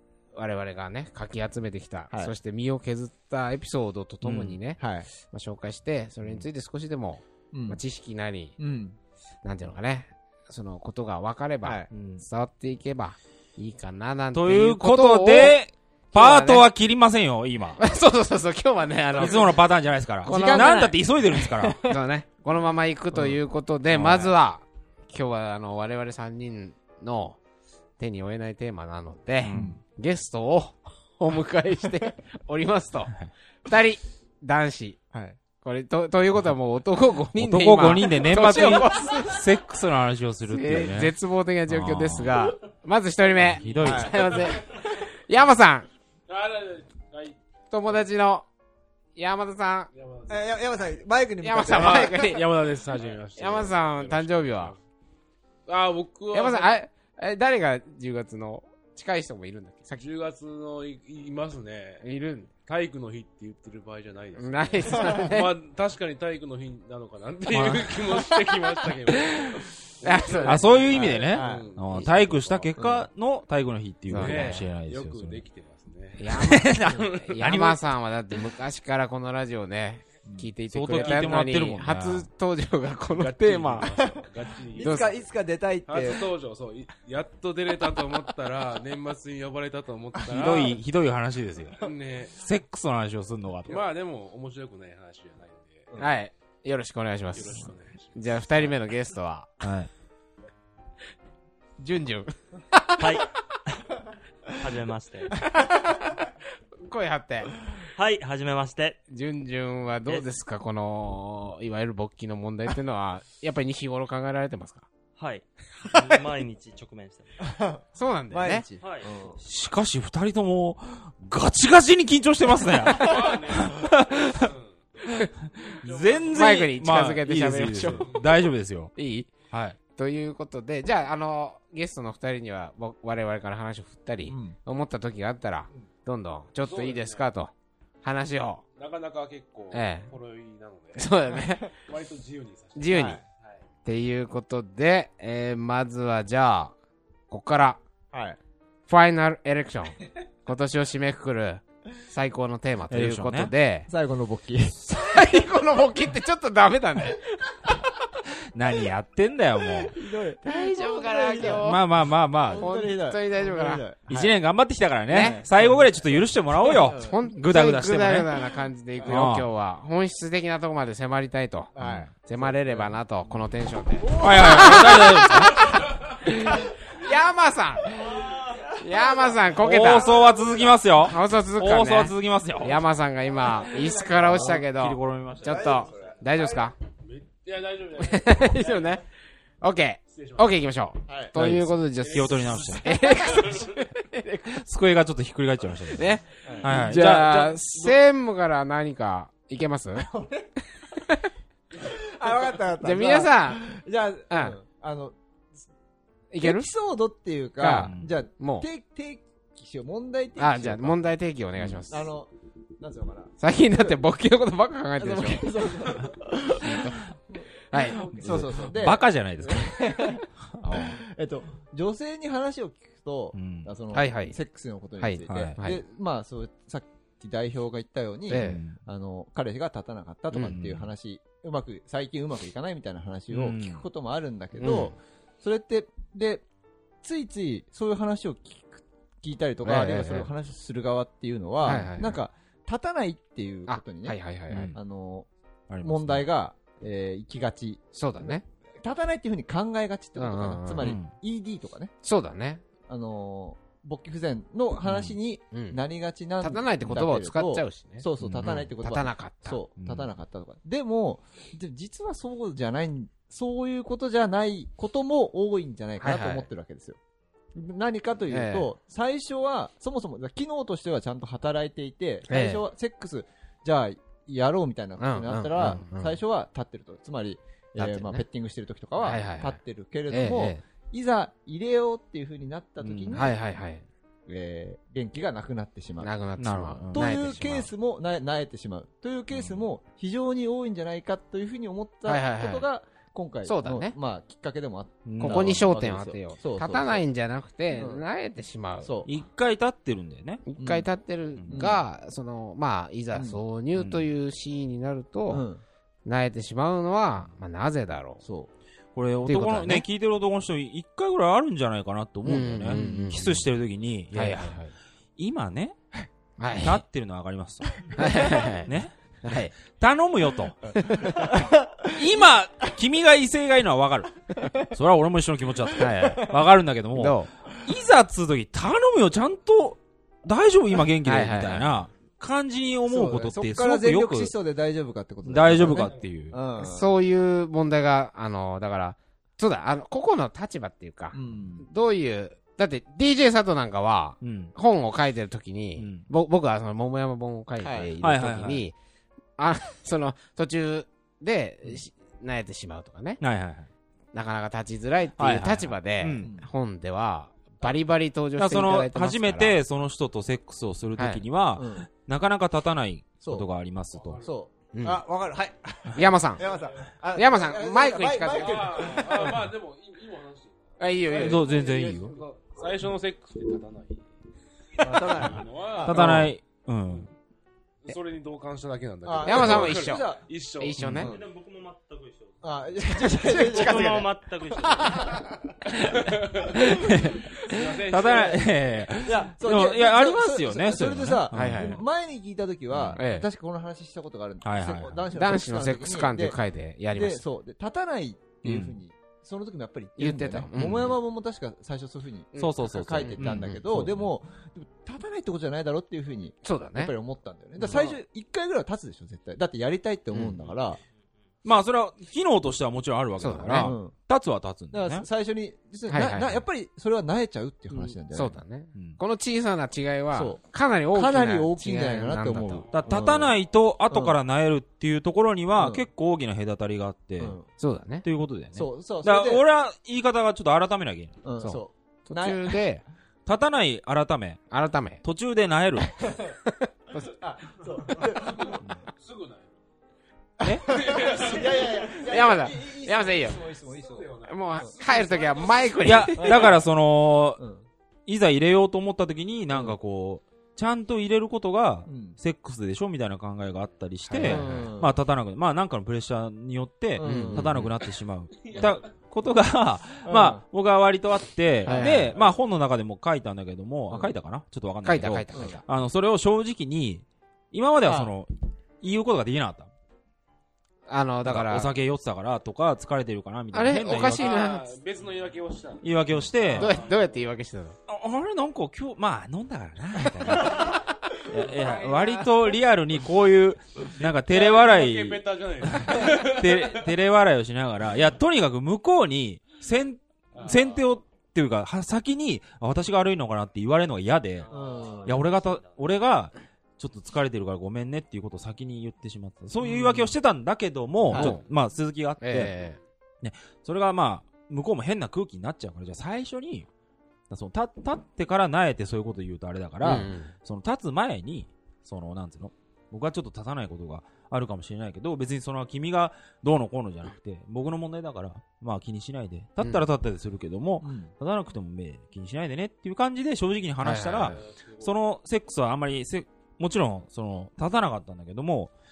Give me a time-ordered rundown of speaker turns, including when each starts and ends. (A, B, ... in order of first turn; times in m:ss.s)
0:00.4-0:08.6 A
0:04.4-0:05.1 B
0:07.5-0:07.8 B
0:08.6-0:09.0 B
0:09.4-0:15.6 A
0:11.6-0:11.9 B
0:11.9-0:12.2 C
0:14.3-0:17.8 C
0:16.1-0:16.7 A
0:17.8-0:19.4 A
0:19.2-0:19.5 B
0:19.2-0:21.8 C
0:20.2-0:21.9 B
0:20.2-0:20.8 A
0:21.8-0:27.4 A
0:23.9-0:24.3 C
0:28.0-0:35.0 A
0:29.4-0:29.8 C
0:29.5-0:29.8 B
0:35.1-0:35.4 B
0:35.6-0:39.5 A
0:37.4-0:41.1 C
0:40.5-0:45.9 A
0:41.7-0:42.3 C
0:43.4-0:44.4 C
0:43.6-0:44.1 D
0:43.8-0:44.6 B
0:46.3-0:47.4 D
0:47.7-0:48.5 A
0:49.2-0:49.9 A
0:49.9-0:51.0 D
0:50.3-0:52.3 B
0:51.4-0:52.5 A
0:51.7-0:54.8 D
0:53.4-0:54.8 A
0:55.7-0:56.7 D
0:56.3-1:00.0 A
0:59.9-1:02.0 D
1:02.0-1:02.5 A
1:02.6-1:12.7 D
1:04.4-1:05.5 A
1:07.5-1:10.7 A
1:10.4-1:15.4 C
1:10.9-1:11.7 B
1:12.8-1:13.1 B
1:14.1-1:14.6 A
1:14.1-1:17.4 D
1:16.2-1:24.2 A
1:16.3-1:17.8 C
1:20.2-1:20.5 B
1:20.7-1:22.3 C
1:21.0-1:21.5 D
1:23.2-1:25.3 D
1:24.8-1:26.3 B
1:24.8-1:25.1 A
1:25.9-1:30.8 D
1:30.3-1:33.9 C
1:31.8-1:32.4 D
1:33.6-1:36.0 D
1:36.0-1:39.5 A
1:37.3-1:38.8 D
1:39.6-1:39.9 C
1:41.8-1:43.2 A
1:43.0-1:43.3 E
1:44.5-1:45.4 E
1:45.6-1:46.0 A
1:46.8-1:47.5 A
1:48.0-1:49.0 E
1:49.1-1:54.9 A
1:55.2-1:57.4 E
1:57.4-1:59.4 B
1:58.0-1:58.6 A
1:58.8-1:59.3 E
1:59.4-2:04.5 C
2:02.9-2:04.7 D
2:05.7-2:06.4 D
2:05.8-2:08.9 C
2:06.3-2:08.1 A
2:09.0-2:09.3 A
2:09.5-2:09.8 C
2:10.0-2:18.6 A
2:14.3-2:14.6 B
2:16.6-2:17.3 D
2:18.8-2:23.6 D
2:19.7-2:20.1 A
2:21.0-2:21.7 A
2:22.8-2:23.2 A
2:22.9-2:23.2 B
2:23.8-2:26.8 A
2:27.3-2:27.8 A
2:28.1-2:28.4 B
2:28.9-2:33.9 A
2:32.9-2:33.5 C
2:33.9-2:34.8 B
2:34.9-2:37.9 A
2:38.5-2:40.0 C
2:40.0-2:41.7 B
2:40.4-2:41.8 A
2:41.6-2:42.6 C
2:42.4-2:44.3 B
2:42.5-2:43.8 A
2:44.1-2:48.3 C
2:45.1-2:45.4 A
2:45.1-2:45.9 B
2:46.7-2:47.2 B
2:46.9-2:51.7 A
2:49.1-2:49.5 C
2:51.8-2:53.4 B
2:51.8-2:52.1 C
2:52.2-2:58.0 A
2:53.9-2:55.8 B
2:54.2-2:55.6 C
2:58.1-2:58.6 B
2:58.8-3:00.1 A
2:59.6-3:02.8 C
3:01.0-3:06.8 A
3:03.6-3:03.9 B
3:04.1-3:05.7 C
3:05.4-3:06.2 B
3:07.0-3:08.9 D
3:08.0-3:09.0 A
3:09.6-3:14.6 A
3:10.1-3:10.6 D
3:11.1-3:11.4 B
3:11.4-3:12.9 C
3:12.0-3:13.5 D
3:14.5-3:18.0 C
3:15.9-3:20.1 A
3:16.4-3:16.8 B
3:20.1-3:20.5 B
3:21.0-3:21.3 A
3:21.8-3:25.1 B
3:22.8-3:23.6 A
3:24.3-3:24.6 A
3:26.3-3:26.7 A
3:26.4-3:31.0 B
3:27.6-3:28.7 A
3:27.8-3:28.1 C
3:30.4-3:32.1 A
3:31.9-3:34.0 B
3:33.4-3:35.7 A
3:35.0-3:37.0 B
3:36.6-3:37.0 A
3:37.7-3:38.0 A
3:37.7-3:41.0 C
3:38.0-3:56.4 B
3:43.3-3:43.7 C
3:43.9-3:44.4 A
3:45.0-3:45.8 A
3:45.3-3:45.6 C
3:48.3-3:48.6 A
3:48.3-3:48.8 C
3:50.3-3:50.9 C
3:53.3-3:53.8 C
3:54.6-3:54.9 A
3:57.0-4:04.2 B
3:59.6-4:00.3 A
4:01.6-4:02.2 A
4:03.7-4:04.7 A
4:04.5-4:04.8 C
4:04.7-4:05.3 B
4:05.7-4:06.2 C
4:05.8-4:11.9 B
4:07.9-4:08.4 A
4:10.2-4:10.9 A
4:10.8-4:11.1 C
4:12.0-4:12.6 A
4:12.9-4:27.0 B
4:14.8-4:15.2 C
4:15.5-4:15.8 A
4:16.4-4:19.6 A
4:18.2-4:18.7 C
4:19.8-4:20.1 C
4:26.0-4:26.5 A
4:27.6-4:43.3 B
4:28.3-4:28.7 A
4:32.3-4:32.6 A
4:35.0-4:36.2 A
4:37.8-4:38.2 A
4:39.0-4:39.6 A
4:40.1-4:40.6 A
4:42.8-4:43.2 C
4:43.1-4:43.9 A
4:44.3-4:46.1 B
4:46.0-4:47.7 A
4:46.4-4:47.0 C
4:46.9-4:57.0 B
4:49.3-4:49.6 C
4:52.1-4:52.6 A
4:53.4-4:54.0 A
4:55.1-4:55.6 C
4:55.2-4:58.9 A
4:57.7-4:58.0 B
4:58.8-4:59.1 B
4:59.0-5:00.4 C
5:00.5-5:05.4 A
5:00.6-5:00.9 B
5:01.5-5:01.8 B
5:03.1-5:03.4 B
5:03.8-5:04.1 C
5:05.3-5:05.6 B
5:06.0-5:08.2 A
5:08.2-5:08.5 B
5:09.0-5:14.6 C
5:09.2-5:09.9 A
5:12.2-5:13.4 A
5:12.6-5:13.1 B
5:14.1-5:14.7 A
5:15.2-5:15.8 C
5:16.4-5:16.8 A
5:16.6-5:17.9 C
5:18.0-5:18.7 A
5:18.6-5:18.9 C
5:19.2-5:19.5 A
5:19.6-5:20.7 C
5:20.8-5:21.1 A
5:20.8-5:22.2 B
5:21.9-5:34.3 C
5:25.8-5:26.3 A
5:27.0-5:27.3 A
5:31.0-5:31.8 A
5:32.9-5:36.9 B
5:35.2-5:36.4 C
5:36.6-5:48.8 A
5:41.1-5:41.6 B
5:44.2-5:44.5 C
5:45.8-5:46.0 C
5:47.6-5:47.9 B
5:48.0-5:48.6 C
5:49.4-5:53.2 A
5:53.2-5:53.7 C
5:54.1-5:59.6 A
5:55.2-5:56.3 C
5:56.2-5:56.5 B
5:58.4-6:04.2 C
6:01.0-6:01.2 A
6:01.6-6:01.9 B
6:03.2-6:03.5 B
6:03.9-6:04.3 D
6:04.2-6:09.4 B
6:04.7-6:05.0 A
6:06.0-6:06.4 A
6:07.1-6:09.0 A
6:08.3-6:14.1 D
6:10.8-6:11.5 A
6:11.1-6:12.2 C
6:14.7-6:16.2 D
6:14.8-6:16.3 B
6:15.8-6:17.1 C
6:15.9-6:16.3 A
6:17.8-6:20.8 D
6:19.0-6:20.2 B
6:19.2-6:21.1 A
6:20.8-6:21.1 C
6:21.0-6:21.2 B
6:21.0-6:25.3 E
6:22.4-6:24.1 B
6:24.8-6:25.2 B
6:25.7-6:26.8 D
6:25.8-6:31.8 C
6:27.4-6:28.9 D
6:29.0-6:36.4 B
6:31.3-6:31.8 A
6:32.7-6:33.0 C
6:33.0-6:33.3 A
6:34.4-6:35.0 C
6:35.1-6:37.2 A
6:36.9-6:50.8 B
6:38.4-6:38.8 C
6:40.0-6:41.0 A
6:40.6-6:40.9 C
6:42.3-6:43.2 A
6:42.4-6:44.1 C
6:46.4-6:46.9 A
6:47.6-6:48.0 A
6:50.4-6:50.8 E
6:51.4-6:55.1 C
6:53.2-6:53.7 A
6:53.6-6:54.0 B
6:54.7-6:58.4 B
6:55.9-6:56.4 A
6:57.7-7:02.7 A
7:00.1-7:00.4 B
7:00.9-7:03.3 B
7:02.3-7:07.4 C
7:02.6-7:03.0 E
7:03.9-7:04.2 B
7:05.6-7:05.9 B
7:07.2-7:07.5 B
7:07.6-7:08.0 A
7:08.0-7:11.2 C
7:08.5-7:09.4 B
7:11.2-7:12.6 B
7:11.4-7:12.8 A
7:13.2-7:14.4 C
7:14.5-7:15.0 A
7:15.0-7:16.0 C
7:16.4-7:17.1 A
7:17.0-7:18.6 B
7:18.2-7:19.6 D
7:20.4-7:24.7 B
7:20.4-7:20.7 C
7:20.6-7:22.2 D
7:22.0-7:23.4 A
7:23.1-7:26.5 D
7:24.3-7:26.4 A
7:25.8-7:27.4 C
7:26.2-7:26.5 B
7:27.4-7:27.6 B
7:28.1-7:49.7 C
7:29.5-7:29.8 B
7:31.9-7:32.2 B
7:34.1-7:34.6 A
7:34.2-7:35.0 B
7:37.0-7:37.7 B
7:37.0-7:37.7 A
7:38.4-7:38.9 D
7:40.0-7:40.4 B
7:41.6-7:42.1 B
7:41.6-7:42.1 A
7:44.8-7:45.6 A
7:45.3-7:45.6 B
7:47.8-7:48.1 B
7:50.9-7:51.7 A
7:51.2-7:54.3 C
7:53.5-7:54.6 A
7:53.9-7:55.9 D
7:55.8-7:56.8 C
7:56.4-7:57.1 D
7:56.6-7:57.8 A
7:57.9-8:14.5 C
8:00.2-8:00.6 A
8:01.4-8:02.1 D
8:04.0-8:06.9 D
8:10.3-8:10.9 D
8:14.4-8:15.8 E
8:14.5-8:15.2 B
8:14.5-8:15.1 D
8:15.1-8:22.5 C
8:19.6-8:20.1 B
8:21.1-8:21.4 B
8:21.1-8:21.4 A
8:22.2-8:22.8 A
8:23.2-8:26.7 C
8:27.3-8:48.7 C
8:29.8-8:30.3 A
8:40.8-8:41.1 B
8:43.8-8:44.4 A
8:44.3-8:44.9 D